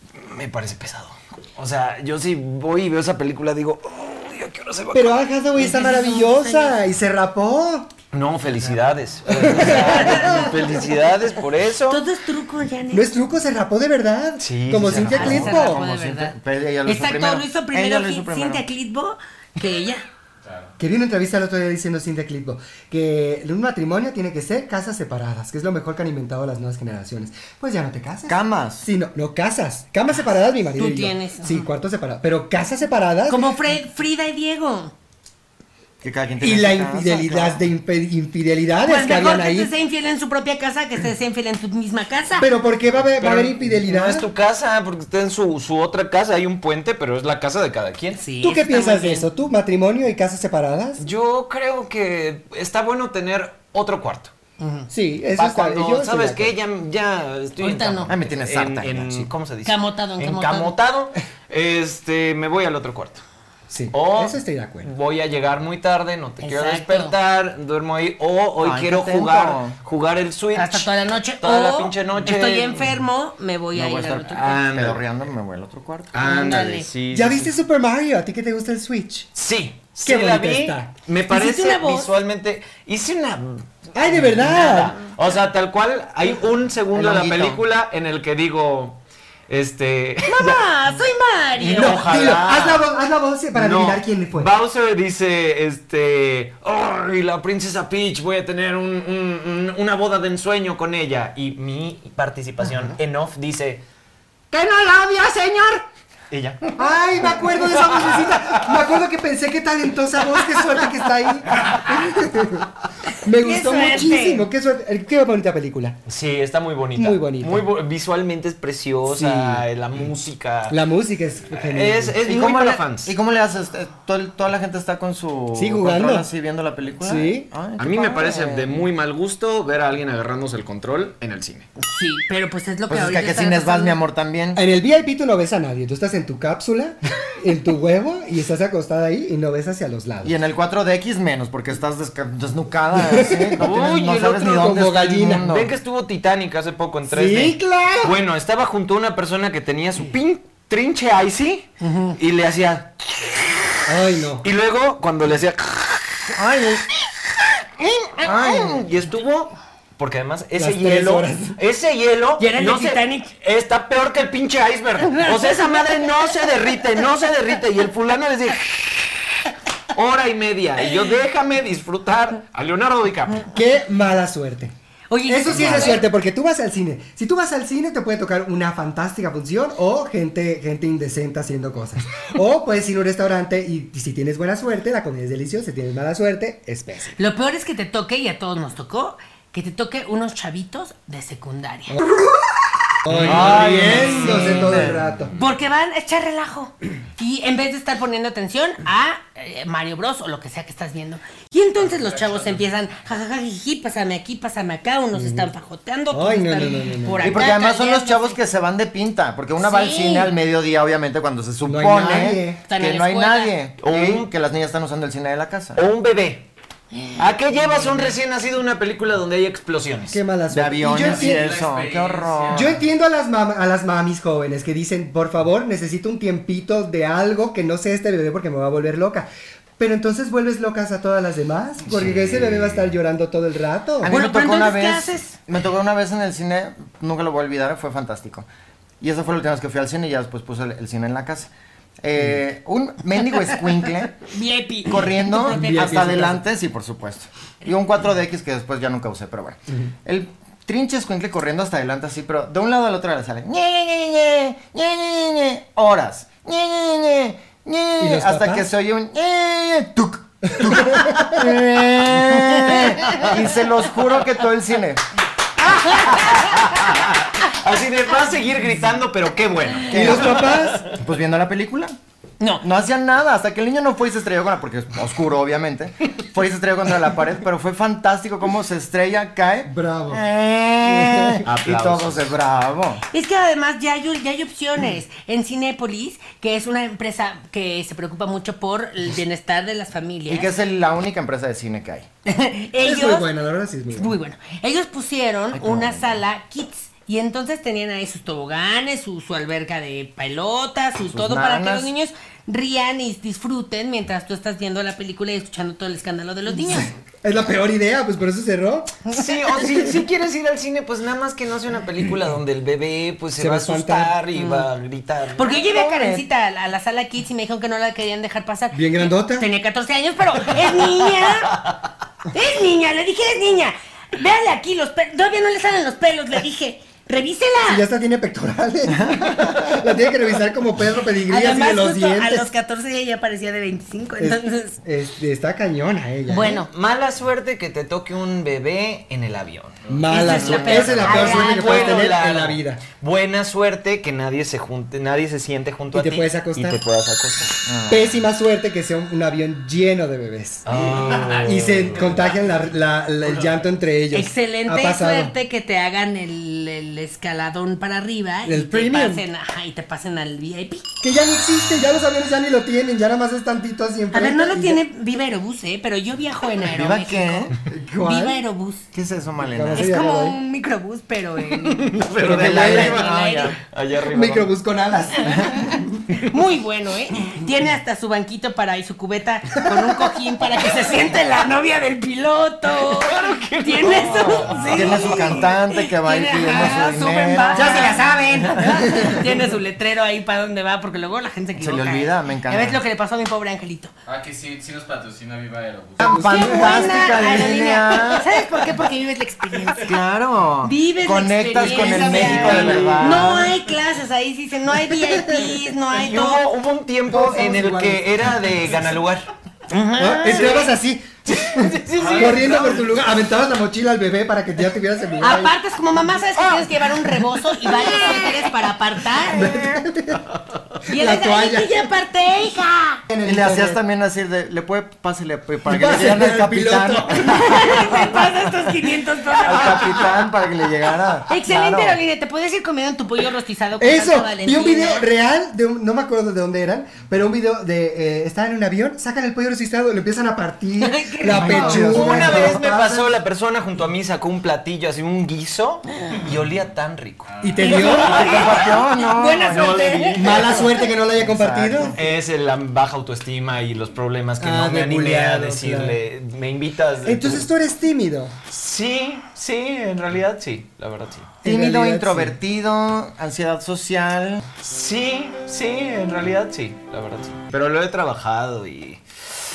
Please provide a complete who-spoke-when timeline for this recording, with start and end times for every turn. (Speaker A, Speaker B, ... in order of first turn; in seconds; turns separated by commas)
Speaker A: 0.2-5.2, Speaker B: 4.9-7.9, Speaker C: 5.6-6.8, Speaker A: 8.1-12.0, Speaker B: 9.3-10.6, Speaker C: 9.7-10.6, Speaker C: 11.9-13.1, Speaker B: 12.9-15.8, Speaker A: 14.4-15.4, Speaker D: 14.8-18.6, Speaker C: 15.1-20.1, Speaker E: 20.4-20.7, Speaker B: 20.8-33.5, Speaker D: 28.3-28.9, Speaker C: 30.8-31.7, Speaker C: 33.3-34.9, Speaker D: 36.0-37.6, Speaker B: 36.4-39.7, Speaker C: 38.9-42.5, Speaker B: 42.4-44.3, Speaker A: 43.2-48.2, Speaker C: 48.2-49.3, Speaker B: 48.4-51.0, Speaker A: 51.0-54.3, Speaker C: 54.6-54.9, Speaker B: 54.9-56.6, Speaker A: 55.4-63.2, Speaker C: 57.6-58.1, Speaker D: 58.1-59.3, Speaker C: 59.6-60.8, Speaker B: 63.7-64.9, Speaker A: 63.9-70.9, Speaker C: 66.4-67.1, Speaker D: 68.6-69.8, Speaker C: 70.5-74.6, Speaker A: 71.4-72.9, Speaker D: 73.7-76.1, Speaker A: 74.3-75.0, Speaker A: 76.1-77.5, Speaker C: 76.2-76.9, Speaker B: 77.1-79.3, Speaker A: 79.3-90.7, Speaker B: 80.0-80.9, Speaker C: 81.3-82.1, Speaker B: 84.0-85.0, Speaker D: 86.9-87.6, Speaker C: 90.3-92.0, Speaker A: 91.6-92.9, Speaker B: 91.7-94.5, Speaker A: 93.5-103.8, Speaker A: 104.5-106.8, Speaker B: 106.8-112.7, Speaker A: 107.8-108.6, Speaker B: 113.2-116.0, Speaker C: 113.4-114.5, Speaker A: 116.1-120.8, Speaker B: 117.0-117.7, Speaker B: 119.1-119.7, Speaker B: 120.7-122.2, Speaker A: 121.5-123.1, Speaker D: 122.2-128.8, Speaker B: 125.5-126.3, Speaker B: 127.0-127.5, Speaker A: 127.8-131.7, Speaker C: 131.8-134.0, Speaker D: 132.9-134.6, Speaker B: 134.6-140.4, Speaker D: 140.2-145.7, Speaker B: 142.9-143.7, Speaker A: 143.6-144.8, Speaker B: 144.4-145.5, Speaker A: 145.4-153.6, Speaker B: 147.1-148.2, Speaker C: 151.8-152.2, Speaker B: 153.9-154.5, Speaker A: 154.4-156.3, Speaker D: 156.3-156.9, Speaker D: 158.1-158.8, Speaker A: 158.2-169.1, Speaker B: 160.6-161.6, Speaker C: 162.4-163.3, Speaker C: 165.1-165.6, Speaker A: 169.9-173.5, Speaker B: 173.5-174.7, Speaker C: 175.1-176.0, Speaker B: 175.3-187.2, Speaker C: 187.2-192.0, Speaker B: 191.9-195.3, Speaker A: 193.1-194.9, Speaker D: 193.1-195.1, Speaker C: 195.4-208.4, Speaker E: 201.8-202.6, Speaker B: 205.1-205.5, Speaker B: 206.1-207.4, Speaker D: 207.2-215.8, Speaker C: 209.6-210.3, Speaker B: 211.6-212.6, Speaker C: 212.7-213.5, Speaker A: 213.8-214.3, Speaker A: 215.8-216.5, Speaker C: 216.9-218.1, Speaker A: 217.2-220.2, Speaker B: 220.1-221.5, Speaker D: 220.5-222.8, Speaker E: 220.9-222.8, Speaker B: 222.5-229.3, Speaker B: 229.8-234.2, Speaker D: 234.0-238.5, Speaker C: 234.1-235.4, Speaker D: 239.0-241.5, Speaker D: 242.0-244.2, Speaker C: 244.3-246.3, Speaker D: 244.9-265.0, Speaker B: 245.5-246.4, Speaker B: 258.0-258.7, Speaker B: 260.5-261.5, Speaker C: 265.9-266.3, Speaker A: 265.9-271.0, Speaker B: 269.9-270.9, Speaker D: 269.9-271.9, Speaker D: 272.6-283.0, Speaker B: 279.7-280.2, Speaker B: 280.8-281.4, Speaker A: 281.4-282.4, Speaker C: 283.1-290.5, Speaker D: 290.3-292.1, Speaker C: 292.2-293.3, Speaker B: 292.8-294.1, Speaker C: 293.9-306.9, Speaker D: 295.5-296.2, Speaker D: 301.0-301.9, Speaker B: 306.7-309.0, Speaker A: 309.1-315.6, Speaker B: 313.4-314.2, Speaker C: 314.4-314.7, Speaker C: 315.4-321.5, Speaker D: 315.6-316.2, Speaker B: 318.7-319.5, Speaker C: 322.3-327.9, Speaker B: 327.7-332.5, Speaker D: 329.0-329.6, Speaker C: 331.3-334.8, Speaker B: 334.2-336.6, Speaker C: 336.3-336.7, Speaker A: 336.7-339.8, Speaker E: 339.8-340.2, Speaker B: 339.9-342.8, Speaker C: 340.1-342.0, Speaker D: 340.3-340.9, Speaker A: 340.7-347.6, Speaker B: 345.9-346.8, Speaker D: 347.7-348.1, Speaker B: 347.9-355.3, Speaker A: 350.7-352.4, Speaker E: 350.9-351.8, Speaker C: 354.1-360.8, Speaker B: 358.4-359.2, Speaker B: 361.0-364.8, Speaker C: 364.1-368.8, Speaker D: 366.7-367.5, Speaker B: 367.7-368.4, Speaker D: 368.9-369.9, Speaker B: 369.4-370.4, Speaker C: 369.7-373.6, Speaker A: 371.6-374.5, Speaker B: 372.2-373.0, Speaker D: 372.3-373.4, Speaker B: 374.1-376.0, Speaker C: 375.3-393.9, Speaker A: 382.8-385.4, Speaker D: 384.7-389.1, Speaker B: 387.5-389.2, Speaker D: 391.6-392.8, Speaker E: 394.1-396.3, Speaker B: 396.0-396.9, Speaker D: 396.0-398.3, Speaker C: 396.3-399.9, Speaker D: 399.9-403.5, Speaker C: 400.6-406.4, Speaker A: 401.6-403.4, Speaker A: 405.9-409.3, Speaker B: 407.1-408.8, Speaker C: 409.7-410.7, Speaker B: 410.0-415.5, Speaker A: 410.3-410.7, Speaker A: 411.3-413.0, Speaker E: 412.0-412.7, Speaker C: 415.2-419.5, Speaker B: 419.3-420.2, Speaker B: 420.9-421.7, Speaker C: 420.9-423.0, Speaker B: 423.1-423.8, Speaker D: 423.2-428.1, Speaker B: 425.7-427.6, Speaker C: 427.2-429.9, Speaker D: 429.4-432.0, Speaker A: 429.7-430.1, Speaker C: 431.3-435.1, Speaker B: 433.8-443.1, Speaker C: 440.8-442.4, Speaker A: 441.3-448.8, Speaker D: 441.9-442.4, Speaker E: 447.3-447.7, Speaker B: 447.4-448.3, Speaker C: 447.6-450.5, Speaker D: 448.0-452.0, Speaker A: 449.5-450.6, Speaker B: 450.2-452.0, Speaker A: 452.0-457.5, Speaker B: 454.4-456.0, Speaker B: 457.0-458.4, Speaker A: 458.5-461.3, Speaker B: 461.4-462.4, Speaker D: 461.4-464.4, Speaker A: 464.6-469.0